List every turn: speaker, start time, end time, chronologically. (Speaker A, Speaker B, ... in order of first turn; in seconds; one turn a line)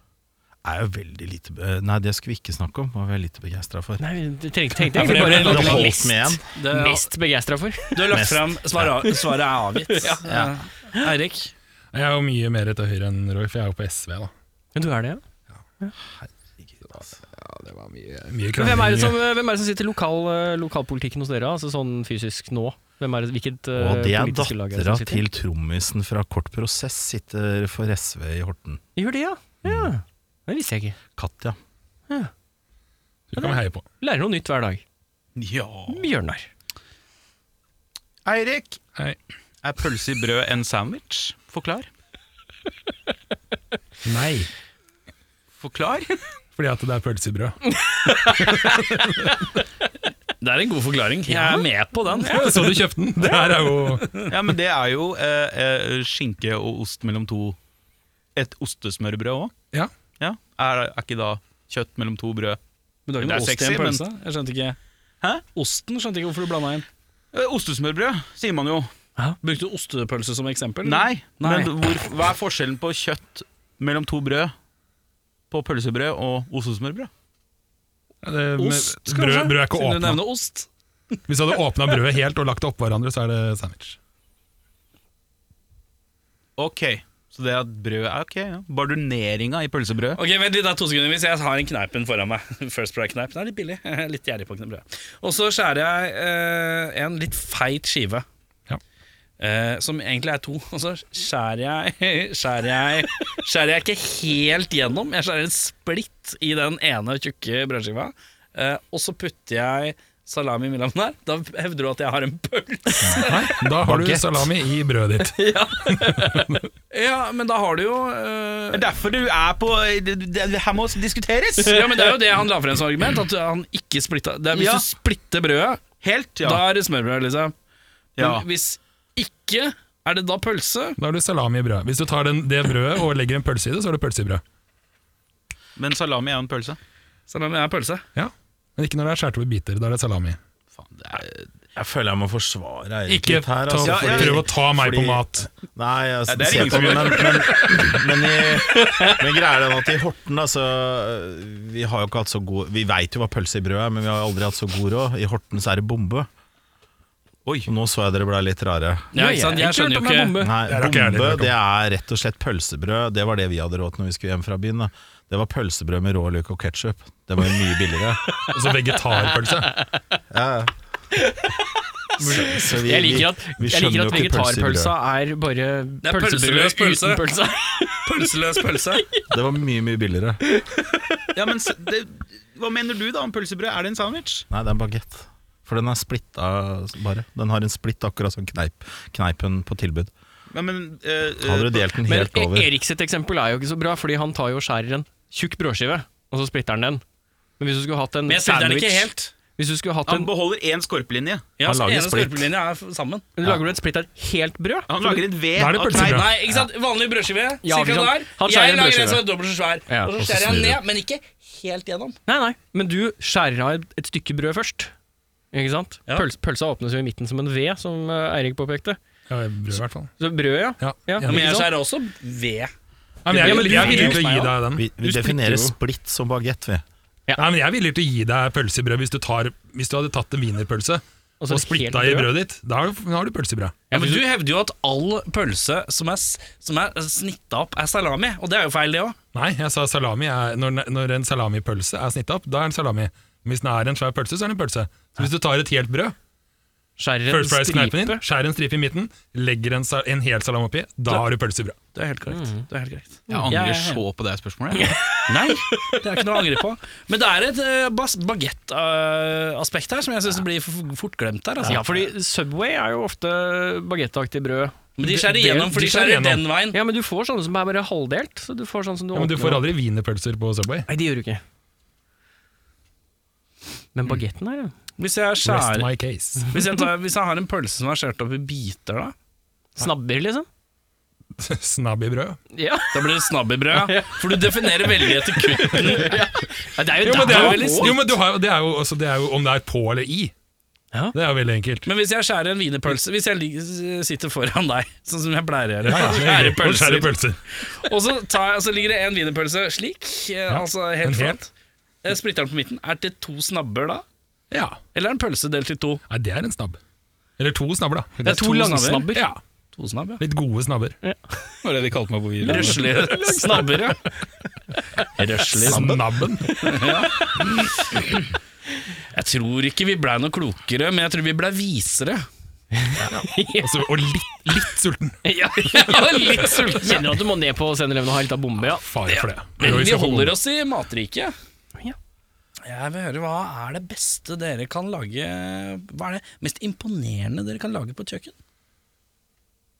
Speaker A: 0.6-4.0
Speaker B: 4.0-8.2
Speaker A: 5.0-6.4
Speaker C: 5.0-7.1
Speaker D: 5.0-5.5
Speaker C: 7.9-11.5
Speaker A: 8.1-9.1
Speaker B: 9.9-10.2
Speaker A: 10.2-10.6
Speaker D: 11.9-14.3
Speaker B: 14.7-15.2
Speaker A: 16.1-17.2
Speaker D: 17.3-19.2
Speaker B: 18.6-25.3
Speaker A: 23.8-28.8
Speaker B: 28.9-31.0
Speaker A: 29.6-29.9
Speaker A: 31.2-31.6
Speaker D: 33.3-33.9
Speaker B: 33.4-34.8
Speaker E: 35.4-36.1
Speaker B: 35.9-36.5
Speaker E: 38.2-38.8
Speaker E: 39.6-41.9
Speaker D: 44.0-44.5
Speaker E: 45.6-46.2
Speaker D: 46.5-49.3
Speaker B: 47.9-48.8
Speaker C: 50.4-52.5
Speaker B: 51.3-51.6
Speaker B: 52.2-53.5
Speaker D: 52.2-54.2
Speaker E: 54.3-57.6
Speaker E: 58.4-59.5
Speaker E: 60.2-62.6
Speaker C: 63.1-64.8
Speaker E: 63.2-64.0
Speaker C: 65.5-66.9
Speaker E: 67.3-68.9
Speaker C: 69.4-71.7
Speaker E: 70.8-74.5
Speaker E: 75.5-77.1
Speaker D: 78.2-80.2
Speaker C: 78.6-80.7
Speaker D: 81.3-84.0
Speaker E: 86.6-90.2
Speaker C: 90.2-98.3
Speaker C: 99.4-113.5
Speaker D: 113.2-116.7
Speaker A: 113.8-114.4
Speaker B: 115.4-116.5
Speaker C: 116.9-118.9
Speaker E: 118.7-121.9
Speaker C: 121.6-125.8
Speaker E: 124.5-124.9
Speaker E: 126.0-126.6
Speaker C: 126.4-127.5
Speaker E: 128.2-128.4
Speaker C: 128.2-131.0
Speaker D: 131.0-134.4
Speaker E: 135.8-136.8
Speaker C: 137.3-138.1
Speaker D: 138.2-140.4
Speaker E: 140.7-141.4
Speaker A: 141.7-156.3
Speaker D: 143.1-145.4
Speaker E: 143.8-144.5
Speaker E: 146.3-147.8
Speaker A: 157.7-159.1
Speaker C: 159.1-160.4
Speaker B: 159.2-160.6
Speaker A: 160.4-168.4
Speaker D: 160.6-161.6
Speaker D: 168.5-169.7
Speaker B: 169.1-169.9
Speaker A: 170.3-170.7
Speaker B: 171.2-171.5
Speaker A: 172.2-174.9
Speaker B: 172.2-178.0
Speaker C: 176.0-177.3
Speaker C: 178.1-179.1
Speaker A: 179.3-180.4
Speaker B: 180.6-181.0
Speaker E: 181.3-184.5
Speaker A: 184.5-190.1
Speaker E: 190.5-191.8
Speaker A: 191.4-192.7
Speaker B: 192.1-197.0
Speaker B: 197.6-200.3
Speaker C: 198.3-199.3
Speaker E: 200.1-201.5
Speaker C: 201.6-203.3
Speaker A: 201.7-202.5
Speaker B: 203.4-205.3
Speaker E: 204.9-206.3
Speaker D: 205.6-206.4
Speaker C: 205.9-212.2
Speaker B: 207.6-209.2
Speaker A: 210.2-210.8
Speaker B: 212.3-214.9
Speaker B: 215.5-219.0
Speaker D: 219.3-220.1
Speaker B: 220.2-221.7
Speaker D: 220.8-221.5
Speaker C: 221.2-222.7
Speaker D: 223.2-224.9
Speaker B: 223.3-225.7
Speaker C: 223.3-224.2
Speaker A: 224.8-226.8
Speaker D: 227.4-233.7
Speaker B: 231.4-232.3
Speaker C: 233.9-239.2
Speaker B: 233.9-234.2
Speaker D: 239.3-246.2
Speaker B: 247.0-248.2
Speaker D: 247.3-251.8
Speaker C: 251.9-254.0
Speaker B: 252.3-252.6
Speaker E: 253.3-254.9
Speaker B: 254.7-255.0
Speaker C: 255.3-261.9
Speaker B: 261.6-265.4
Speaker C: 265.0-266.8
Speaker D: 265.1-266.4
Speaker B: 266.7-269.7
Speaker D: 269.1-270.9
Speaker B: 270.9-271.4
Speaker B: 273.9-274.7
Speaker C: 275.0-275.9
Speaker D: 275.4-276.6
Speaker C: 276.5-279.1
Speaker B: 279.8-280.5
Speaker D: 281.4-282.4
Speaker B: 282.5-288.1
Speaker C: 282.9-286.1
Speaker D: 287.0-290.3
Speaker C: 287.1-288.0
Speaker D: 291.1-291.9
Speaker C: 291.9-301.5
Speaker D: 295.8-297.4
Speaker D: 300.5-301.4
Speaker C: 302.0-304.0
Speaker D: 304.5-304.8
Speaker C: 304.9-306.0
Speaker D: 306.1-306.8
Speaker D: 307.4-308.4
Speaker C: 308.2-309.1
Speaker B: 308.2-309.2
Speaker D: 309.1-309.4
Speaker C: 309.7-310.2
Speaker D: 310.2-310.9
Speaker E: 311.6-312.8
Speaker C: 312.4-314.0
Speaker B: 312.4-314.1
Speaker C: 315.1-315.9
Speaker D: 315.6-316.6
Speaker B: 316.5-317.2
Speaker C: 316.6-317.4
Speaker C: 319.1-322.3
Speaker B: 322.7-323.7
Speaker D: 323.0-325.2
Speaker B: 325.2-328.8
Speaker C: 325.7-327.1
Speaker D: 328.6-330.4
Speaker C: 329.1-331.3
Speaker C: 332.6-338.4